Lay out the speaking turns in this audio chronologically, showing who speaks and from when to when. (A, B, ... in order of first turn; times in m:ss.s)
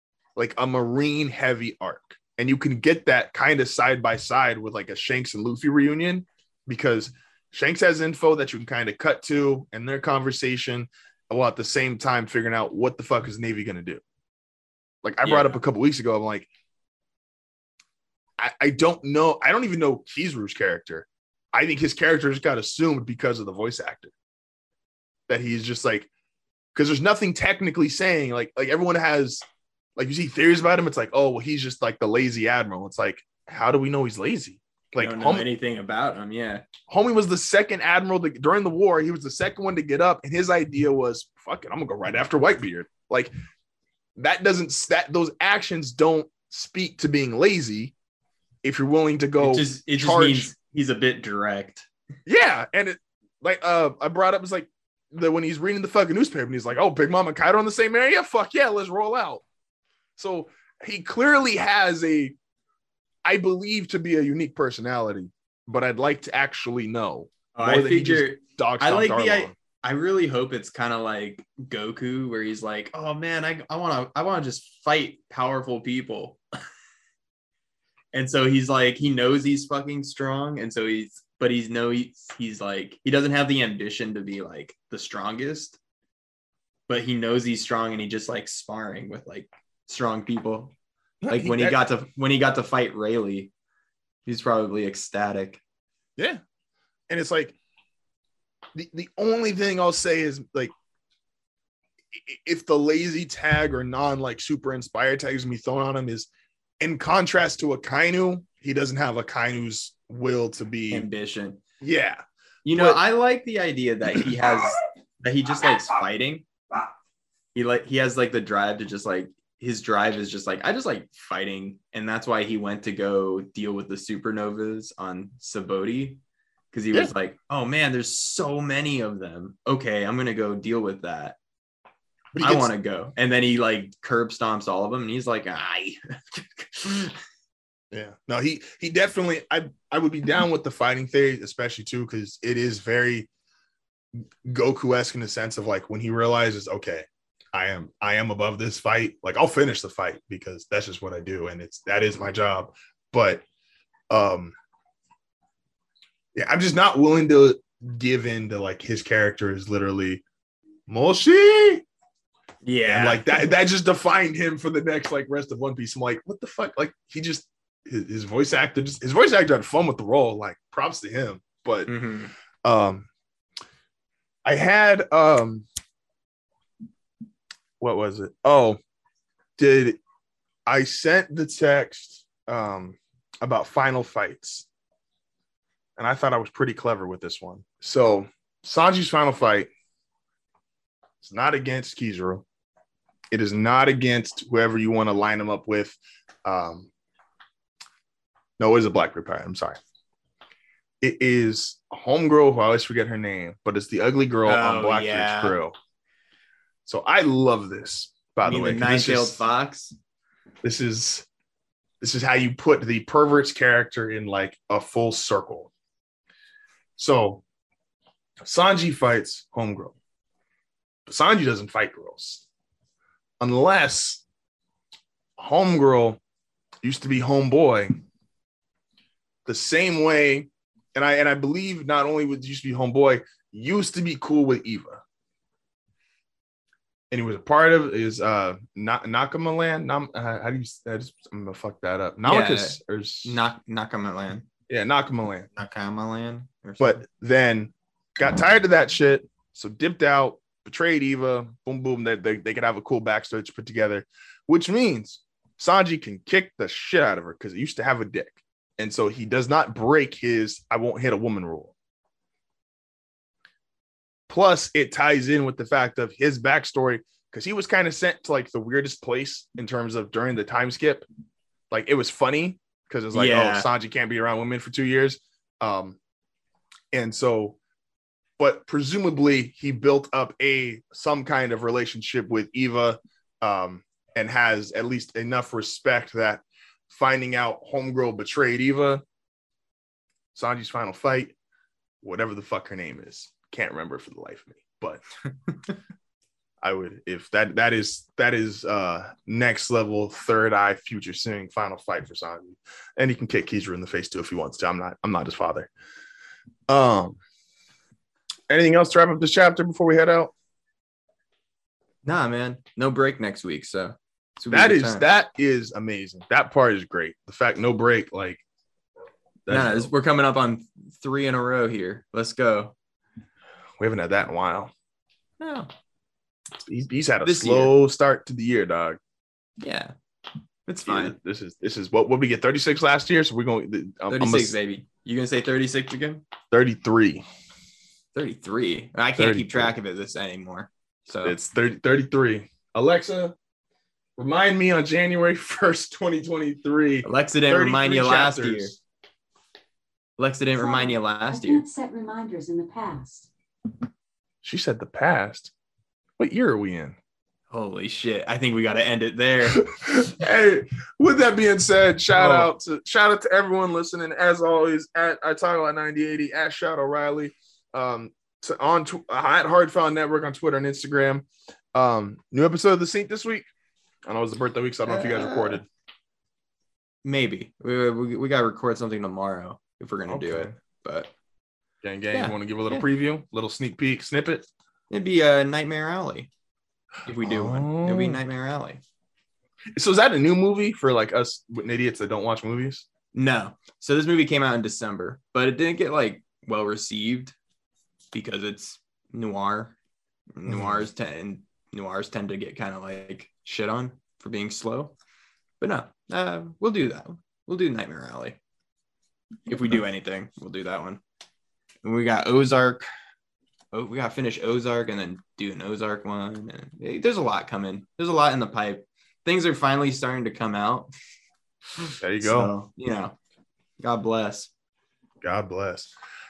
0:00.4-0:14.0 A
0:15.0-0:16.5 A
0:15.2-0:15.6 B
0:18.4-0:24.1 A
0:25.3-0:26.1 A
0:26.7-0:29.4 A
0:30.0-0:35.5 A
0:35.0-0:36.7 B
0:36.9-0:43.3 A
0:44.2-0:47.9 A
0:48.6-0:50.5 A
0:49.4-0:51.9 B
0:52.2-0:59.4 A
1:00.2-1:02.4 A
1:03.2-1:09.5 A
1:07.5-1:16.4 B
1:18.1-1:25.8 B
1:26.9-1:30.7 B
1:31.2-1:31.8 A
1:31.3-1:33.5 B
1:34.2-1:35.6 B
1:37.1-1:37.6 A
1:38.7-1:40.7 A
1:42.2-1:46.3 A
1:46.8-1:51.1 A
1:50.9-1:51.6 B
1:51.8-1:53.0 A
1:52.6-1:56.4 B
1:57.5-2:06.2 B
2:06.7-2:11.4 B
2:12.3-2:12.7 A
2:12.4-2:17.2 B
2:17.9-2:23.3 A
2:24.4-2:33.4 A
2:34.1-2:34.5 A
2:36.4-2:40.2 A
2:40.9-2:41.8 A
2:42.6-2:43.4 B
2:42.9-2:51.9 A
2:51.8-2:52.3 B
2:52.6-2:53.1 A
2:54.4-2:55.6 A
2:57.8-2:58.8 A
2:59.6-3:00.0 A
3:00.7-3:04.7 A
3:06.0-3:09.7 A
3:11.2-3:12.4 A
3:13.3-3:16.9 A
3:18.6-3:19.8 A
3:21.0-3:25.7 A
3:24.4-3:25.6 B
3:26.8-3:29.4 A
3:28.4-3:30.0 B
3:30.6-3:31.2 A
3:32.0-3:35.7 A
3:37.0-3:37.4 A
3:38.4-3:40.0 A
3:41.1-3:42.4 A
3:43.4-3:44.2 A
3:45.4-3:46.2 A
3:46.8-3:48.0 A
3:49.4-3:55.0 A
3:57.1-4:03.4 A
4:02.2-4:04.4 B
4:04.7-4:05.5 A
4:05.6-4:07.0 B
4:06.8-4:21.7 A
4:24.3-4:31.0 A
4:31.7-4:36.0 A
4:33.1-4:33.7 B
4:36.9-4:37.6 A
4:38.4-4:49.0 A
4:50.3-4:51.3 A
4:52.0-4:55.0 A
4:56.6-5:05.7 A
5:06.7-5:07.2 A
5:08.5-5:10.3 A
5:12.0-5:15.0 B
5:14.5-5:18.4 A
5:19.5-5:19.9 A
5:19.5-5:22.7 B
5:23.8-5:24.7 A
5:25.4-5:25.7 B
5:26.6-5:29.0 A
5:27.2-5:27.7 B
5:29.6-5:29.9 B
5:30.6-5:31.1 B
5:30.8-5:34.6 A
5:34.1-5:36.2 B
5:36.5-5:37.2 A
5:38.1-5:41.4 B
5:39.2-5:39.7 A
5:41.2-5:43.3 A
5:44.2-5:48.8 A
5:47.0-5:48.7 B
5:50.2-5:51.6 B
5:50.6-5:53.3 C
5:54.4-5:55.5 A
5:56.2-5:57.0 A
5:57.5-5:59.6 B
5:59.6-6:13.5 A
6:02.1-6:02.5 B
6:14.0-6:15.6 A
6:14.9-6:15.6 B
6:17.0-6:21.1 B
6:20.1-6:20.6 A
6:21.8-6:24.4 A
6:22.1-6:22.8 B
6:24.9-6:26.3 B
6:27.0-6:28.8 B
6:27.2-6:28.2 A
6:29.8-6:32.8 A
6:33.1-6:37.4 B
6:38.1-6:39.7 B
6:40.3-6:44.9 B
6:40.5-6:40.8 A
6:45.6-6:48.4 B
6:49.5-6:51.0 B
6:51.8-6:52.8 B
6:53.7-7:00.9 B
7:01.8-7:03.2 B
7:02.0-7:02.5 A
7:03.8-7:04.5 B
7:05.2-7:05.9 A